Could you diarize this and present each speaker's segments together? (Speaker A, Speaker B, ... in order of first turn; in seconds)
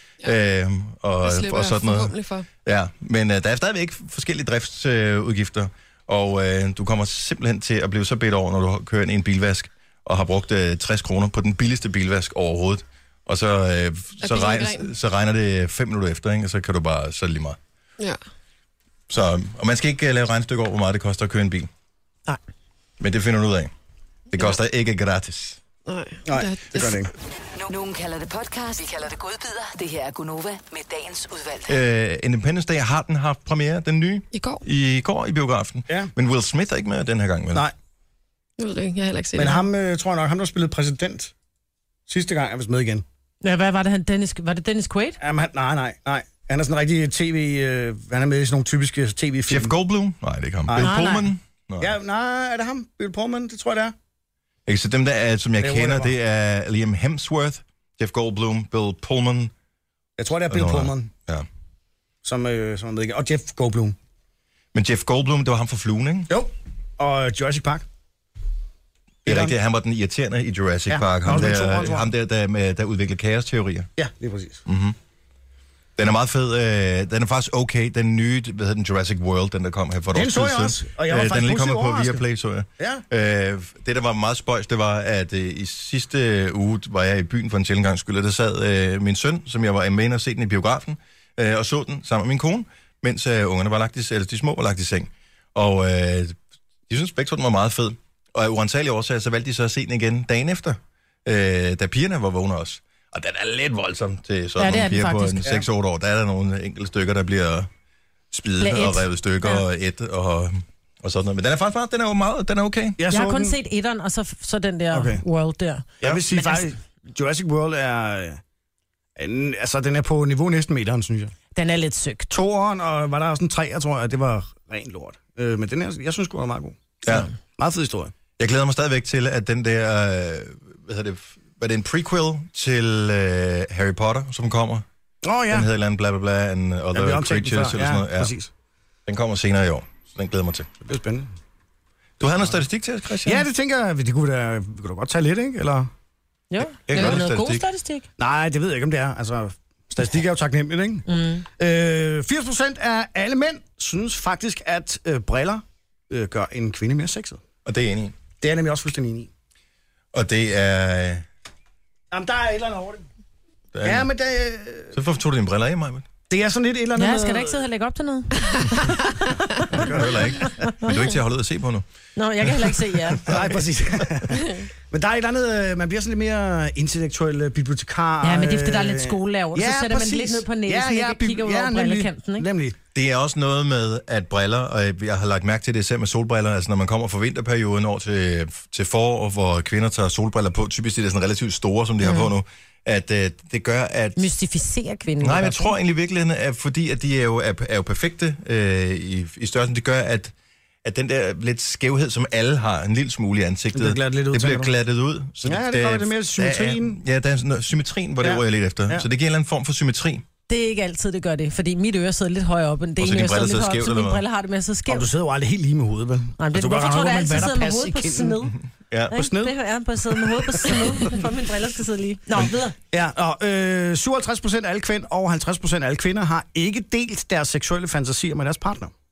Speaker A: 0.2-2.1, 2.6-17.6, 19.1-21.7, 23.0-23.7, 24.3-25.6, 31.7-37.6, 49.5-52.0, 54.6-59.5, 60.5-61.5, 64.7-66.3, 69.2-73.9, 74.7-74.9, 76.0-107.7, 108.3-113.0, 127.0-127.3, 128.4-134.8, 135.5-138.3, 139.1-140.7, 142.2-143.5, 146.8-147.7, 157.7-158.1, 160.1-161.2, 163.7-164.1, 164.9-166.1, 169.7-171.8, 172.4-173.4, 182.9-194.2, 195.2-200.3, 200.8-210.2, 213.0-214.2, 218.9-219.1
Speaker B: 1.2-2.5, 14.2-14.9, 24.3-24.6, 25.9-27.0, 34.3-34.6, 38.6-39.6, 174.4-174.7
Speaker C: 26.2-27.1, 39.3-41.3, 42.1-43.0, 45.2-49.7, 50.6-51.0, 51.8-53.9, 55.6-56.1, 60.2-61.1, 62.2-64.0, 66.3-67.8, 69.2-69.5, 70.9-72.1, 74.0-74.6, 80.1-82.2, 82.8-83.0, 113.0-113.6, 114.9-115.2, 116.0-118.4, 119.2-121.3, 122.3-126.8, 127.6-128.1, 135.2-135.7, 136.9-138.5, 140.8-141.3, 143.2-145.9, 146.9-147.2, 148.2-157.4, 158.4-159.3, 162.1-163.1, 163.8-164.9, 166.3-167.7, 169.7-170.4, 173.2-182.8, 203.7-204.7, 205.4-207.0, 208.2-209.1, 214.9-218.5, 219.1-221.2, 222.9-228.9
Speaker D: 27.5-31.7
Speaker E: 43.4-45.2, 50.8-51.3, 104.6-105.5, 108.6-109.6, 113.1-116.7, 121.5-122.3, 146.5-148.1, 151.1-151.4, 166.9-169.2, 170.4-171.1, 172.2-173.3, 178.2-182.5, 192.0-192.3, 194.2-195.7, 210.5-215.1, 216.4-218.6, 219.1-222.8